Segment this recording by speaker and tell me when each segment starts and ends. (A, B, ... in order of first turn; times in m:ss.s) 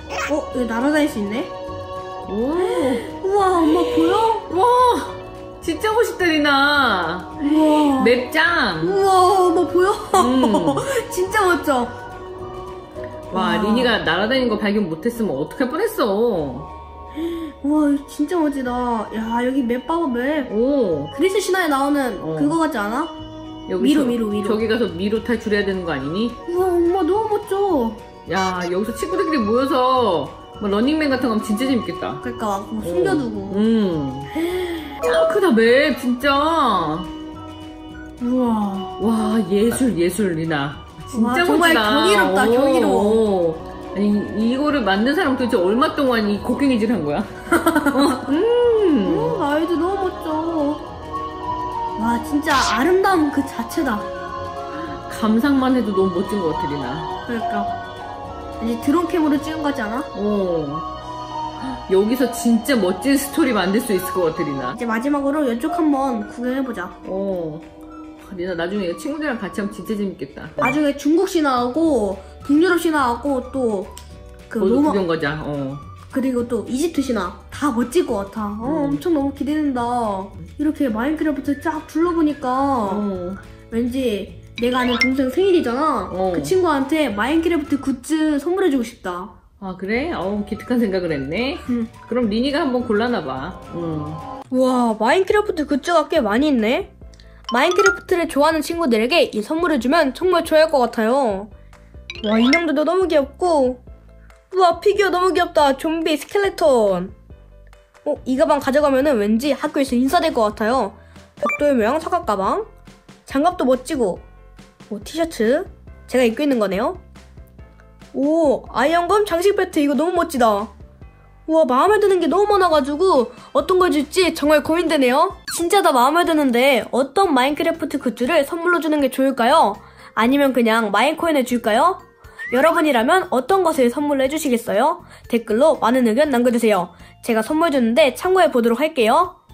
0:00.3-0:01.5 A
0:02.3-0:03.1 B
0:02.6-0:04.5 A
0:04.5-0:09.0 B
0:07.4-0:08.3 A
0:08.8-0:12.0 A
0:10.1-0:10.9 B
0:13.3-0:16.7 B
0:13.3-0:14.0 A
0:17.2-0:20.5 A
0:20.5-0:21.1 B
0:21.1-0:23.2 A
0:22.2-0:22.6 B
0:23.7-0:26.4 B
0:23.8-0:24.6 A
0:26.5-0:28.0 A
0:28.3-0:32.2 B
0:32.2-0:33.7 A
0:32.8-0:34.3 B
0:35.0-0:37.1 B
0:38.2-0:38.9 A
0:39.0-0:49.4 B
0:41.1-0:43.2 A
0:47.6-0:48.3 A
0:49.0-0:50.9 A
0:52.0-0:54.1 A
0:55.1-0:57.1 B
0:57.3-0:57.7 A
0:58.6-1:00.1 A
1:00.1-1:00.9 B
1:01.6-1:04.8 B
1:04.8-1:07.0 A
1:07.0-1:07.7 B
1:08.2-1:10.8 B
1:10.6-1:13.9 A
1:14.5-1:15.0 A
1:14.6-1:15.8 B
1:16.1-1:23.1 A
1:18.6-1:19.0 B
1:22.8-1:23.4 B
1:23.7-1:29.3 A
1:26.1-1:26.6 B
1:29.6-1:34.2 B
1:31.7-1:31.9 A
1:34.5-1:36.9 A
1:37.5-1:41.5 A
1:42.2-1:43.8 A
1:44.5-1:47.1 A
1:48.0-1:52.7 A
1:53.3-1:54.2 A
1:54.9-1:57.0 A
1:58.1-2:00.7 A
2:01.5-2:19.4 A